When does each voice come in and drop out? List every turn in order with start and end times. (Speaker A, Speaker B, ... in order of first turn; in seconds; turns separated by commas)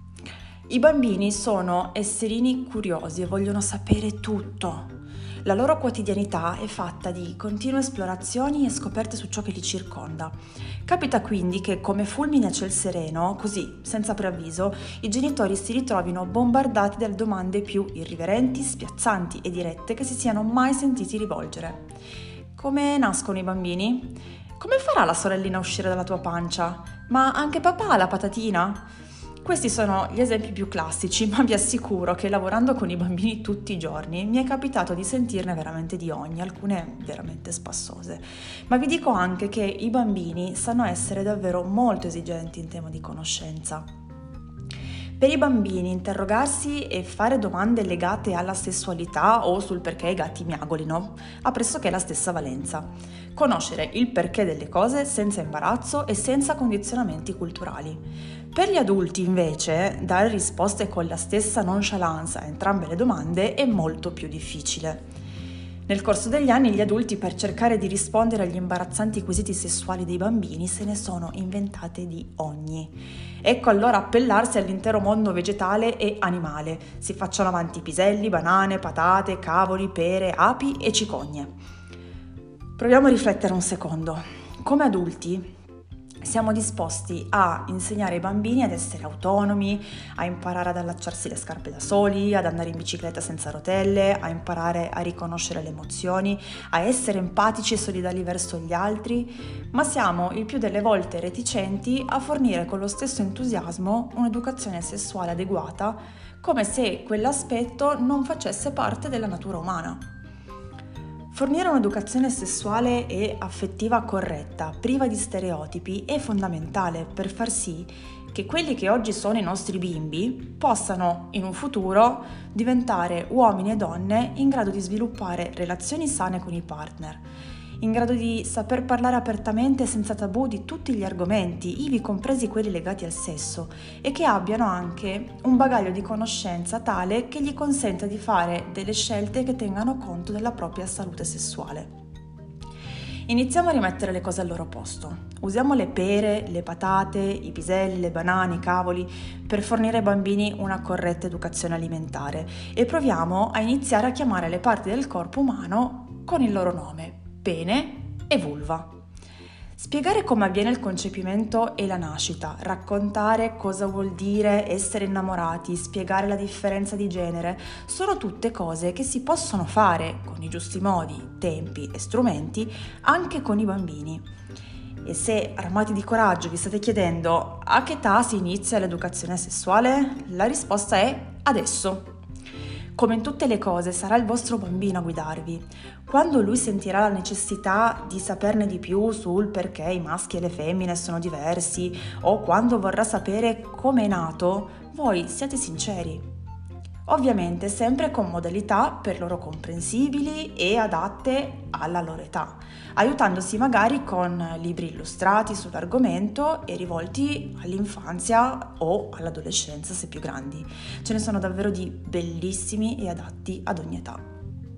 Speaker A: 0.7-4.9, Speaker A: 5.4-21.9, Speaker A: 22.5-28.9, Speaker A: 29.4-43.9, Speaker A: 45.2-58.0, Speaker A: 58.5-65.0, Speaker A: 65.9-81.5, Speaker A: 82.8-85.5, Speaker A: 86.2-110.0, Speaker A: 111.3-127.2, Speaker A: 127.8-141.9, Speaker A: 143.3-158.9, Speaker A: 159.8-174.2, Speaker A: 175.0-182.1, Speaker A: 182.9-196.2, Speaker A: 197.1-214.2